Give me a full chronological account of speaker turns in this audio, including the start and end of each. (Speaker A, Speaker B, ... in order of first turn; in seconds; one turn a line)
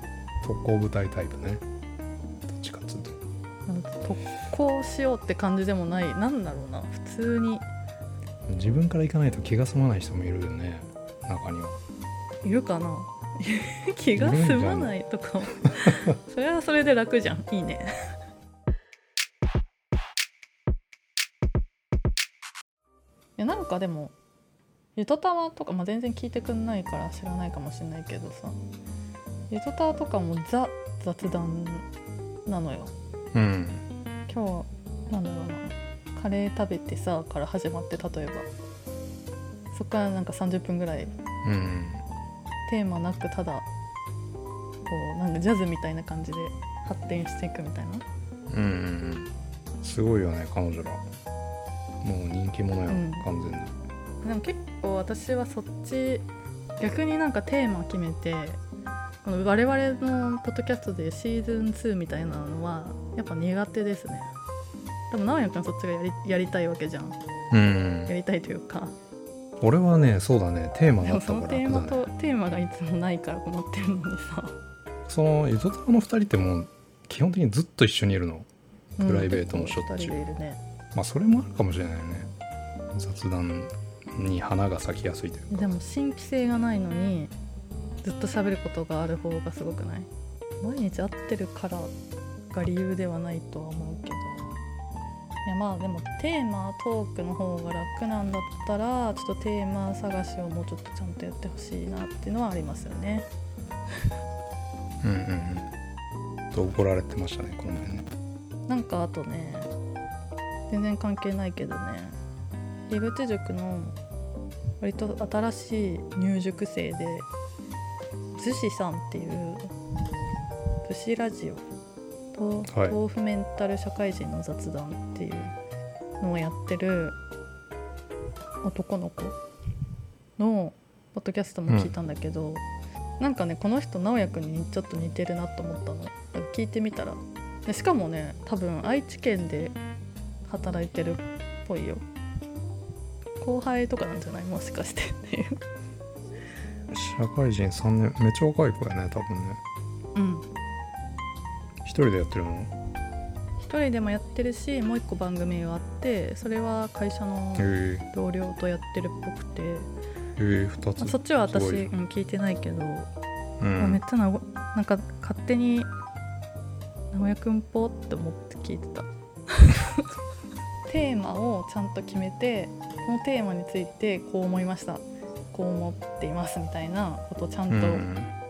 Speaker A: 0.4-1.6
Speaker A: 2.5-3.2
Speaker B: 3.7-7.7
Speaker A: 8.5-11.8
Speaker B: 12.4-17.9
Speaker A: 14.2-14.9
Speaker B: 23.4-24.1
Speaker B: 25.0-28.6
Speaker B: 29.5-31.9
Speaker B: 32.5-32.9
Speaker A: 33.3-33.8
Speaker B: 34.3-38.5
Speaker B: 39.7-41.1
Speaker A: 41.4-42.0
Speaker B: 42.7-43.7
Speaker B: 44.9-48.0
Speaker A: 48.5-49.3
Speaker A: 49.8-51.0
Speaker A: 52.0-53.7
Speaker B: 52.9-53.3
Speaker B: 54.2-56.2
Speaker B: 56.8-58.6
Speaker B: 59.2-64.3
Speaker B: 65.1-67.2
Speaker A: 67.5-68.1
Speaker B: 68.1-68.9
Speaker A: 69.6-72.1
Speaker B: 71.0-74.6
Speaker A: 75.1-78.5
Speaker B: 79.0-80.6
Speaker A: 79.0-80.2
Speaker A: 80.9-82.3
Speaker A: 82.9-85.7
Speaker B: 85.5-87.3
Speaker B: 88.0-90.1
Speaker B: 90.6-91.9
Speaker B: 92.5-94.5
Speaker B: 95.5-103.3
Speaker A: 105.0-105.7
Speaker A: 106.5-108.1
Speaker B: 108.7-109.7
Speaker B: 110.7-112.2
Speaker B: 112.9-114.0
Speaker B: 114.8-117.3
Speaker B: 118.3-119.7
Speaker B: 120.8-121.7
Speaker B: 122.3-125.5
Speaker A: 122.7-123.0
Speaker B: 126.2-127.2
Speaker B: 128.6-129.4
Speaker B: 130.4-132.6
Speaker A: 131.7-131.9
Speaker B: 133.2-139.8
Speaker B: 140.5-142.0
Speaker B: 143.4-145.6
Speaker A: 146.9-149.6
Speaker B: 150.2-150.5
Speaker A: 151.8-152.7
Speaker B: 153.6-159.9
Speaker A: 157.6-158.1
Speaker A: 160.4-161.9
Speaker B: 161.0-163.1
Speaker A: 163.6-164.0
Speaker B: 163.8-165.9
Speaker B: 167.1-170.1
Speaker B: 170.9-178.1
Speaker A: 177.7-178.3